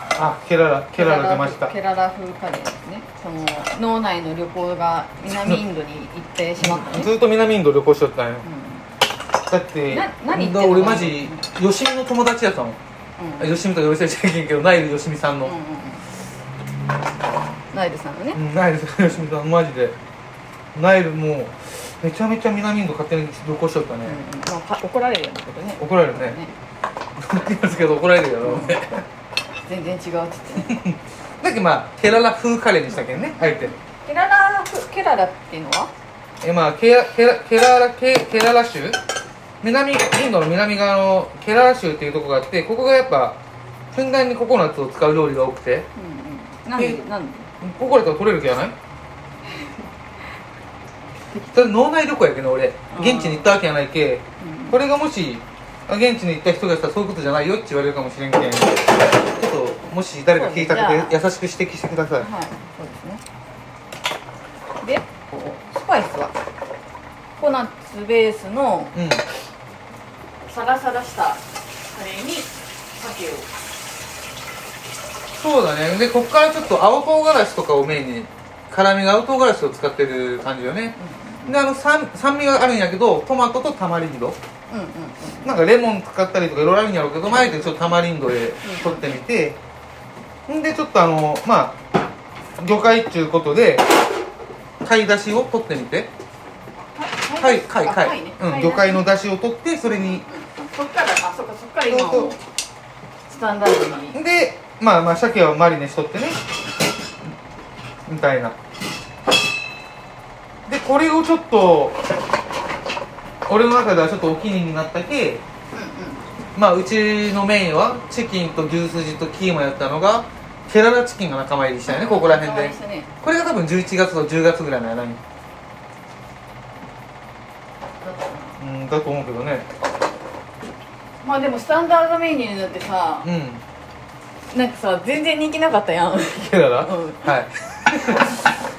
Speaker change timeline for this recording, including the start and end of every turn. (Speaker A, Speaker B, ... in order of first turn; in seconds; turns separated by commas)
Speaker A: 0.2-1.7, Speaker B: 1.0-7.1, Speaker A: 5.3-5.6, Speaker A: 6.6-8.5, Speaker B: 8.4-8.9, Speaker A: 9.5-12.8, Speaker B: 9.9-11.4, Speaker B: 13.2-13.6, Speaker A: 13.4-15.6, Speaker B: 15.4-16.1, Speaker B: 17.7-18.4, Speaker A: 18.3-20.0, Speaker A: 20.7-24.2, Speaker B: 24.1-26.5, Speaker A: 25.8-26.4, Speaker A: 27.2-29.0, Speaker B: 28.4-28.8, Speaker B: 29.6-30.8, Speaker A: 30.6-33.7, Speaker B: 33.3-35.9, Speaker A: 36.4-39.0, Speaker A: 39.6-43.4, Speaker A: 43.9-45.9, Speaker B: 46.0-47.5, Speaker A: 47.6-48.8, Speaker A: 51.4-62.3, Speaker B: 52.9-53.5, Speaker B: 54.4-54.8, Speaker B: 60.3-61.2, Speaker B: 62.2-63.2, Speaker B: 64.8-66.3, Speaker B: 67.4-68.9, Speaker A: 68.9-69.2, Speaker B: 70.5-73.5, Speaker A: 75.4-81.0, Speaker B: 81.0-81.6, Speaker A: 81.5-84.4, Speaker B: 84.7-85.6, Speaker A: 85.4-89.6, Speaker B: 88.6-89.1, Speaker A: 90.5-91.8, Speaker A: 92.6-93.9, Speaker A: 94.8-96.1, Speaker B: 96.8-99.1, Speaker A: 97.4-100.2, Speaker B: 99.9-102.4, Speaker A: 101.9-102.3, Speaker B: 103.3-104.2, Speaker A: 104.1-106.4, Speaker A: 108.1-108.6, Speaker A: 110.7-112.0, Speaker A: 113.5-115.4, Speaker B: 115.7-116.2, Speaker A: 116.5-125.2, Speaker B: 121.9-123.1, Speaker B: 128.0-128.6, Speaker A: 128.6-129.7, Speaker B: 131.2-133.3, Speaker A: 133.2-133.6, Speaker B: 134.5-137.3, Speaker A: 136.3-138.4, Speaker B: 137.9-138.4